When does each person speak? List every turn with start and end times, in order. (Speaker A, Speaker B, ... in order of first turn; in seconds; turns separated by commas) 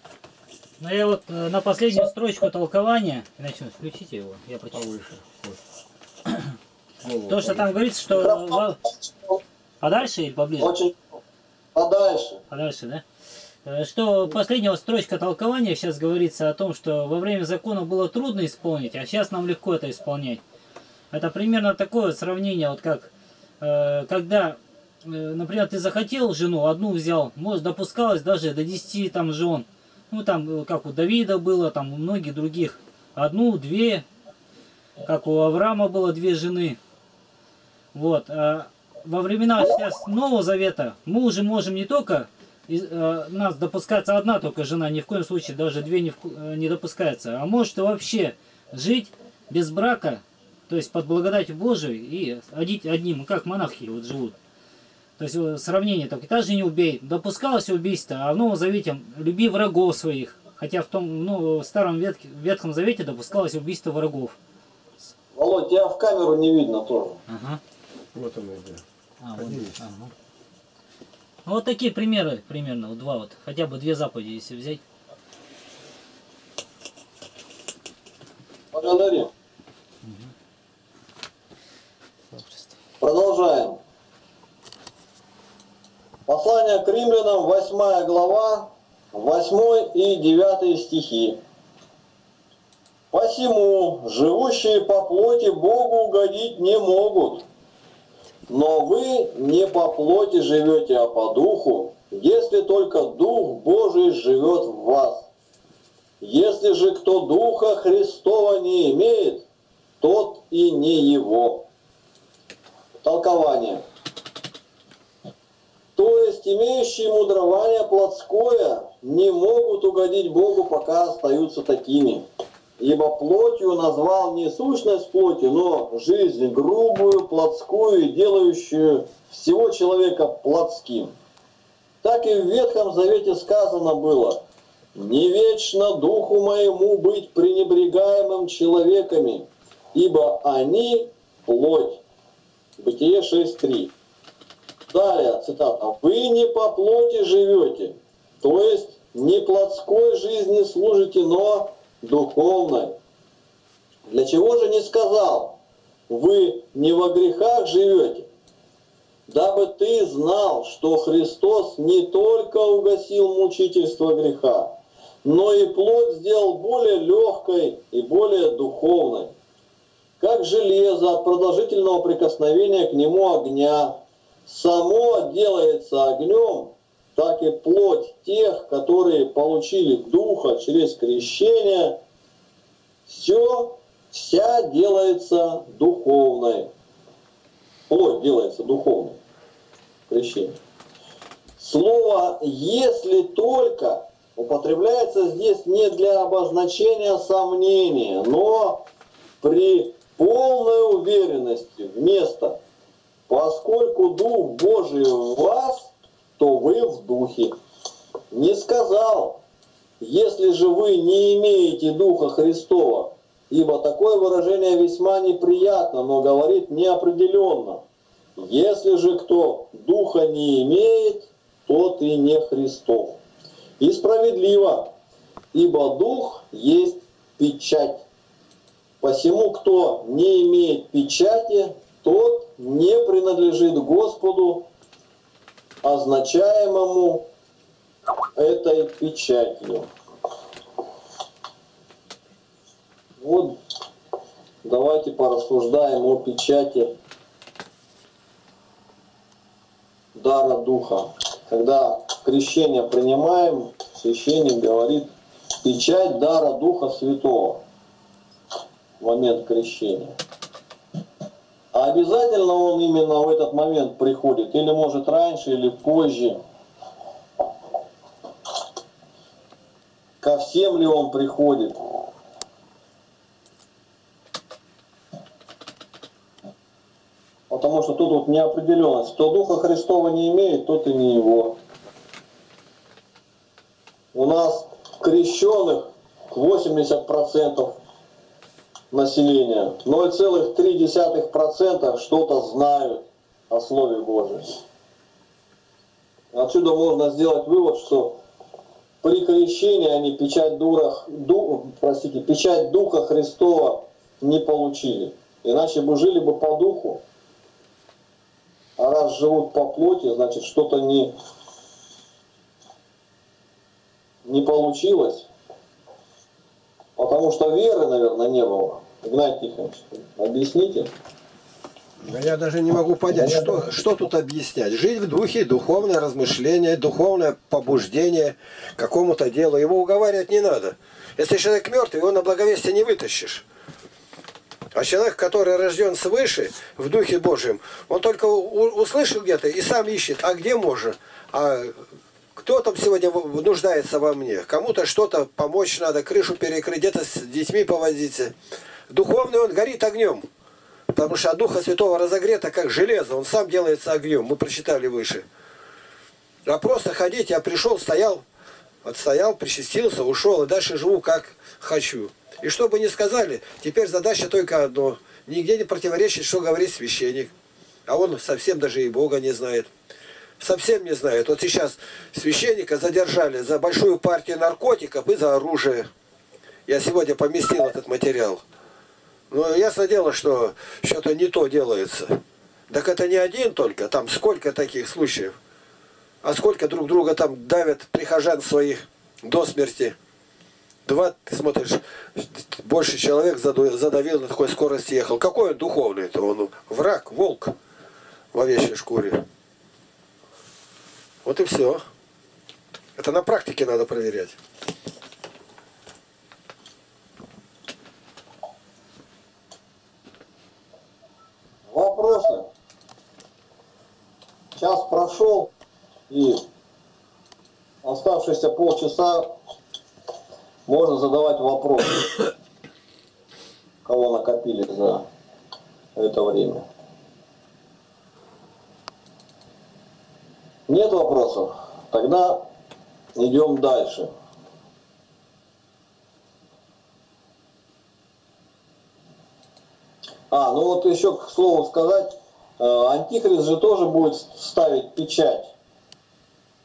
Speaker A: 0.8-5.1, Speaker B: 4.7-5.6, Speaker B: 7.0-7.7, Speaker A: 7.3-8.8, Speaker C: 8.1-8.6, Speaker A: 9.8-10.8, Speaker C: 10.6-11.2, Speaker C: 11.8-12.4, Speaker A: 12.5-13.0, Speaker A: 13.7-20.4, Speaker A: 21.1-23.1, Speaker A: 23.6-34.0, Speaker A: 35.0-36.8, Speaker A: 37.9-54.4, Speaker A: 55.2-64.4, Speaker C: 65.3-67.2, Speaker A: 67.3-67.6, Speaker B: 68.1-68.8, Speaker A: 69.2-70.1, Speaker B: 69.4-69.8, Speaker A: 71.5-74.8, Speaker C: 78.7-79.3, Speaker A: 80.0-80.3, Speaker A: 82.3-82.7, Speaker C: 83.0-83.8, Speaker C: 86.3-91.4, Speaker C: 93.1-97.5, Speaker C: 98.5-105.3, Speaker C: 106.2-109.5, Speaker C: 110.0-111.7, Speaker C: 113.0-113.8, Speaker C: 116.0-122.2, Speaker C: 122.8-131.1, Speaker C: 132.0-134.4, Speaker C: 134.9-142.0, Speaker C: 142.8-143.9, Speaker C: 144.9-153.0, Speaker C: 154.1-155.6, Speaker C: 156.1-158.3, Speaker C: 159.3-164.7, Speaker C: 165.2-169.3, Speaker C: 170.2-182.0, Speaker C: 183.1-186.7, Speaker C: 187.9-189.2, Speaker C: 190.1-190.6, Speaker C: 191.6-198.8, Speaker C: 199.4-202.6, Speaker C: 203.3-207.5, Speaker C: 208.3-209.4, Speaker C: 210.0-217.8, Speaker C: 218.4-223.2, Speaker C: 223.8-224.9, Speaker C: 225.5-228.1, Speaker C: 229.0-234.7, Speaker C: 235.8-237.3, Speaker C: 238.4-239.9, Speaker C: 243.2-243.6, Speaker C: 244.6-246.9, Speaker C: 250.2-255.1, Speaker C: 255.6-257.6, Speaker C: 259.0-260.1, Speaker C: 261.7-266.4, Speaker C: 270.2-271.8, Speaker C: 277.5-281.6, Speaker C: 284.1-287.8, Speaker C: 288.9-294.6, Speaker C: 296.3-298.2, Speaker C: 299.0-307.0, Speaker C: 308.8-311.1, Speaker C: 314.2-315.3, Speaker C: 317.0-320.9, Speaker B: 322.0-333.4, Speaker B: 334.7-341.8, Speaker B: 342.4-348.4, Speaker B: 348.9-350.3, Speaker B: 350.9-355.2, Speaker B: 356.4-358.2, Speaker B: 358.8-367.3, Speaker B: 367.9-369.7, Speaker B: 370.4-375.9, Speaker B: 376.7-378.4, Speaker B: 379.3-385.4, Speaker B: 386.2-390.0, Speaker B: 390.9-397.6, Speaker B: 398.3-399.2, Speaker B: 401.2-401.8, Speaker B: 403.0-404.4, Speaker C: 411.7-412.5, Speaker C: 414.6-415.5, Speaker C: 416.1-416.4, Speaker C: 417.8-419.3, Speaker C: 420.7-422.2, Speaker C: 423.9-425.1, Speaker C: 426.0-426.6, Speaker C: 430.7-432.4, Speaker C: 433.2-434.1, Speaker C: 440.3-445.5